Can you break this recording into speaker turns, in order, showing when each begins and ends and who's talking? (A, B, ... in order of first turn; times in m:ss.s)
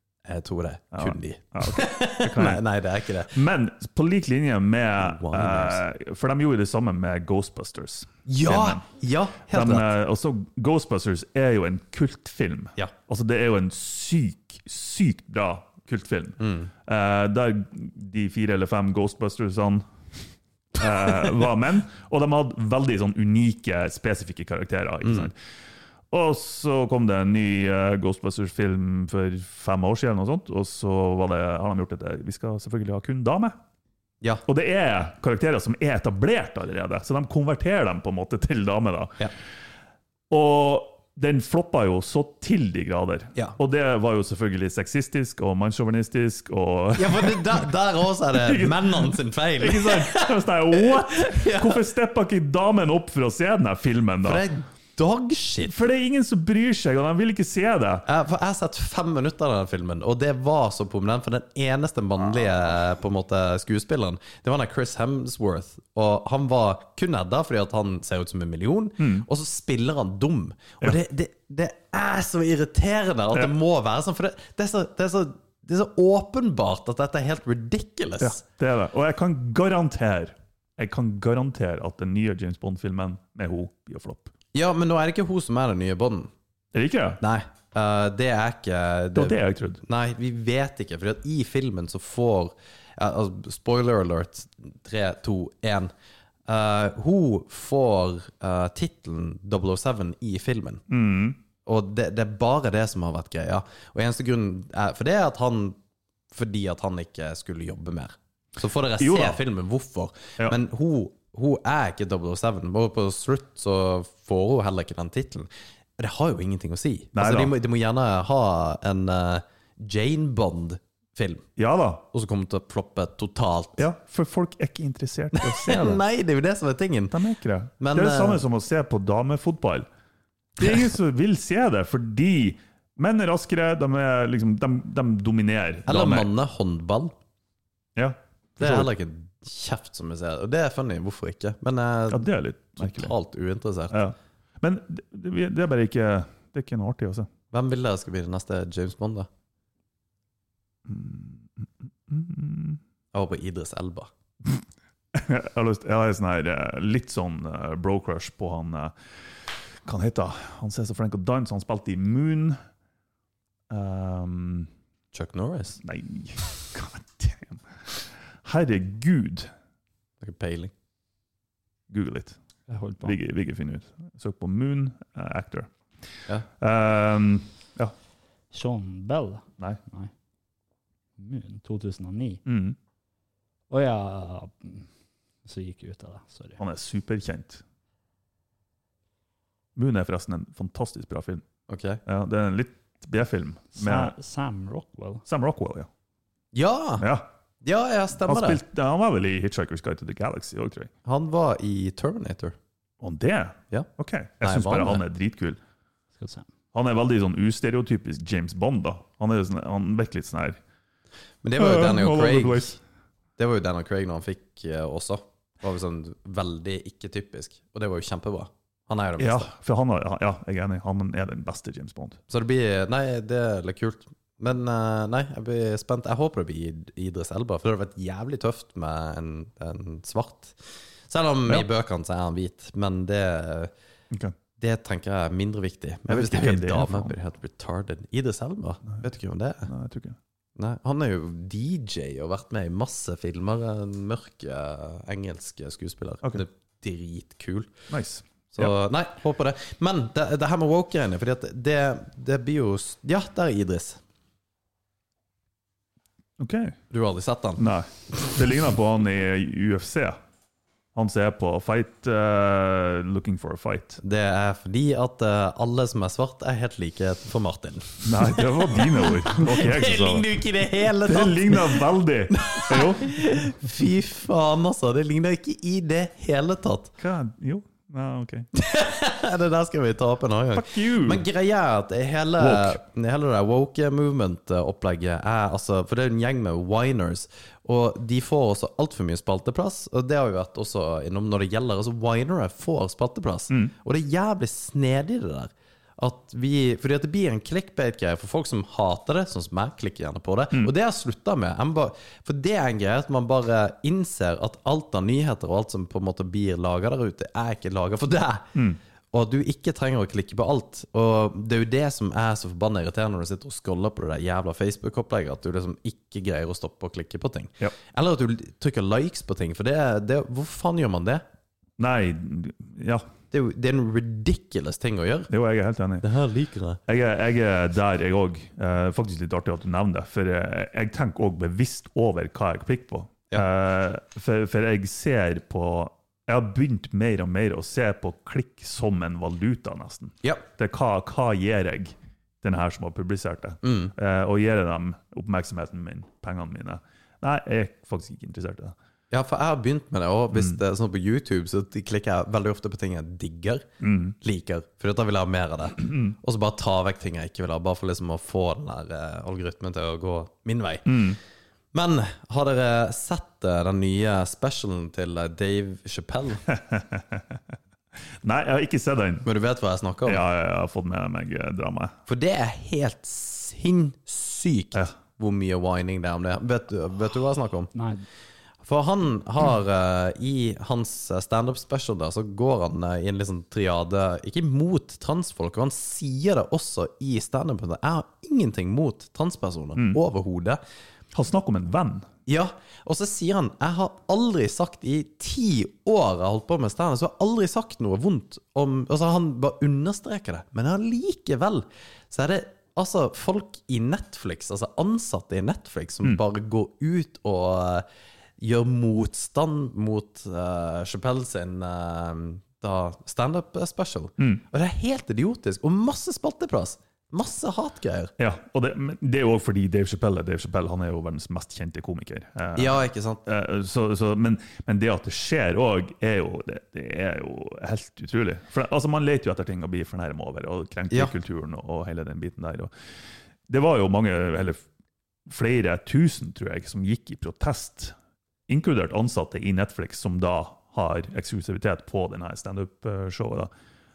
0:00.3-0:03.4 A
0:00.9-0:02.6 B
0:03.3-0:08.8 B
0:05.0-0:05.8 A
0:08.3-0:09.9 A
0:09.5-0:19.9 B
0:16.4-0:16.7 A
0:20.8-0:25.4 B
0:25.0-0:25.3 A
0:26.1-0:33.6 B
0:34.5-0:39.2 B
0:40.3-0:47.6 B
0:47.0-0:51.8 A
0:48.3-0:54.4 B
0:54.2-0:55.8 A
0:55.6-0:58.0 B
0:58.1-1:18.4 A
1:09.0-1:09.2 B
1:18.2-1:24.3 B
1:24.5-1:26.3 A
1:26.7-1:27.2 B
1:27.2-1:35.9 A
1:29.2-1:29.8 B
1:36.5-1:40.8 A
1:40.9-1:41.4 B
1:41.6-1:45.8 A
1:46.3-2:01.5 A
1:49.0-1:49.4 B
1:57.2-1:57.5 B
2:01.6-2:02.0 B
2:02.1-2:03.8 A
2:03.8-2:06.0 B
2:05.3-2:07.2 A
2:07.1-2:09.9 B
2:07.8-2:08.4 A
2:10.6-2:16.3 B
2:15.9-2:17.2 A
2:18.0-2:18.9 B
2:18.6-2:24.0 A
2:22.1-2:23.1 B
2:23.9-2:27.3 B
2:27.5-2:29.3 A
2:30.9-2:32.8 B
2:33.1-2:34.1 A
2:35.1-2:42.6 B
2:43.7-2:44.7 B
2:45.1-2:45.8 A
2:45.8-2:49.5 B
2:50.2-2:50.7 A
2:51.9-2:52.4 B
2:52.7-2:53.2 C
2:53.0-2:55.7 B
2:56.6-2:57.9 B
2:58.5-3:00.1 C
3:01.2-3:02.4 C
3:02.4-3:02.8 B
3:03.7-3:04.9 C
3:05.4-3:06.6 C
3:06.6-3:07.6 B
3:09.8-3:11.4 B
3:11.7-3:12.0 A
3:12.1-3:14.1 B
3:13.8-3:15.2 C
3:15.3-3:15.9 B
3:16.5-3:17.1 A
3:17.0-3:17.3 B
3:17.6-3:18.6 A
3:18.2-3:20.9 B
3:21.0-3:22.6 A
3:23.0-3:25.6 B
3:24.4-3:25.0 A
3:26.2-3:26.5 C
3:26.7-3:30.6 B
3:31.4-3:32.8 A
3:31.6-3:32.8 B
3:33.4-3:39.5 A
3:39.2-3:42.2 B
3:42.3-3:50.6 A
3:51.1-3:53.7 A
3:54.6-3:59.7 A
3:56.1-3:57.2 B
3:59.7-4:00.2 B
4:00.6-4:07.8 A
4:07.9-4:08.7 B
4:08.5-4:14.0 A
4:16.4-4:16.8 B
4:16.9-4:17.7 A
4:17.6-4:20.2 B
4:21.0-4:24.0 B
4:24.0-4:36.9 A
4:28.0-4:30.3 B
4:30.8-4:33.2 B
4:37.0-4:38.5 B
4:38.5-5:08.6 A
4:40.5-4:41.2 B
4:42.4-4:42.8 B
5:09.1-5:21.2 A
5:21.8-5:23.0 B
5:23.3-5:25.3 A
5:25.3-5:26.0 B
5:26.0-5:26.8 A
5:26.9-5:48.8 B
5:43.6-5:43.9 A
5:49.1-5:53.7 A
5:50.3-5:50.6 B
5:53.8-5:54.2 B
5:54.2-6:01.2 A
5:55.8-5:56.1 B
6:00.9-6:01.2 B
6:01.7-6:06.4 A
6:06.5-6:07.4 B
6:08.2-6:09.3 B
6:09.2-6:10.2 A
6:10.0-6:12.0 B
6:12.1-6:17.7 A
6:17.7-6:18.0 C
6:18.6-6:30.6 A
6:31.1-6:32.1 B
6:32.3-6:47.9 A
6:48.4-6:58.1 A
6:58.2-7:12.7 B
7:02.6-7:03.2 A
7:13.5-7:14.6 B
7:15.3-7:18.0 B
7:18.5-7:23.5 B